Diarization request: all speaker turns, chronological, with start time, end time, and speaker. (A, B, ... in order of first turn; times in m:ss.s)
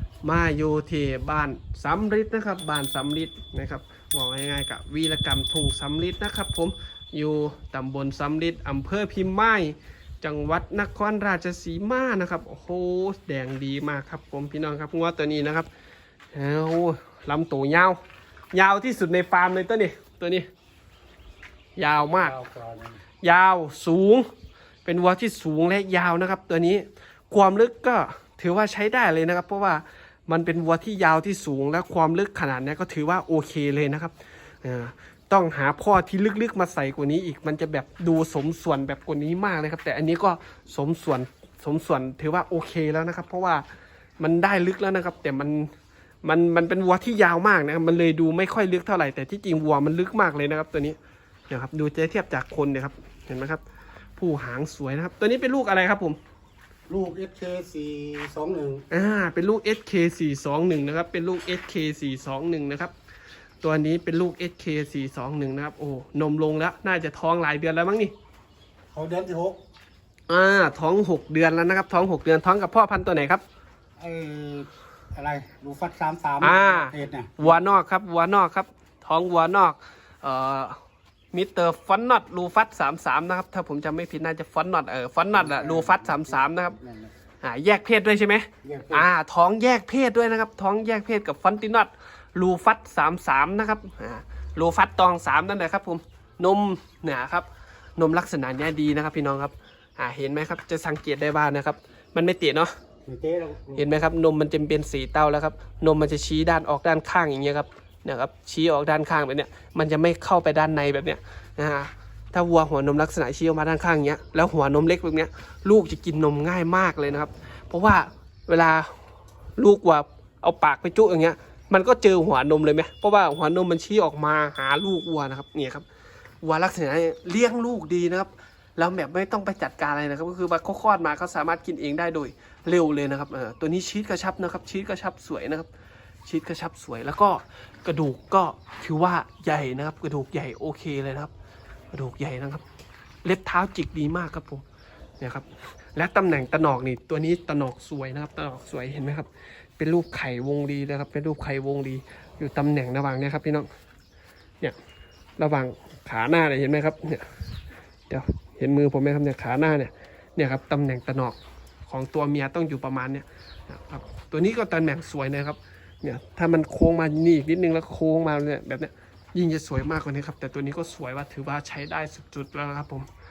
0:00.2-0:15.7 A
0:16.3-0:18.0 A
0:18.5-0:20.5 A
0:21.8-0:22.4 A
0:22.2-0:23.0 B
0:23.2-0:24.3 A
0:24.8-0:43.6 A
0:44.2-0:45.7 A
0:46.2-0:51.0 A
0:51.5-0:53.6 A
0:54.2-0:56.2 A
0:56.9-0:58.8 B
0:58.9-1:02.9 A
1:03.6-1:08.1 A
1:08.9-1:09.6 B
1:10.3-1:13.4 A
1:14.0-1:17.6 B
1:16.4-1:20.8 A
1:21.3-1:26.8 A
1:25.3-1:27.1 B
1:27.4-1:42.7 A
1:28.6-1:29.1 B
1:43.1-1:43.8 B
1:43.8-1:59.0 A
1:59.6-2:05.8 A
2:06.4-2:15.7 A
2:16.2-2:21.3 A
2:21.9-2:22.6 A
2:23.2-2:24.6 A
2:25.2-2:33.7 A
2:35.4-2:37.4 A
2:38.1-2:41.4 A
2:41.9-2:53.1 A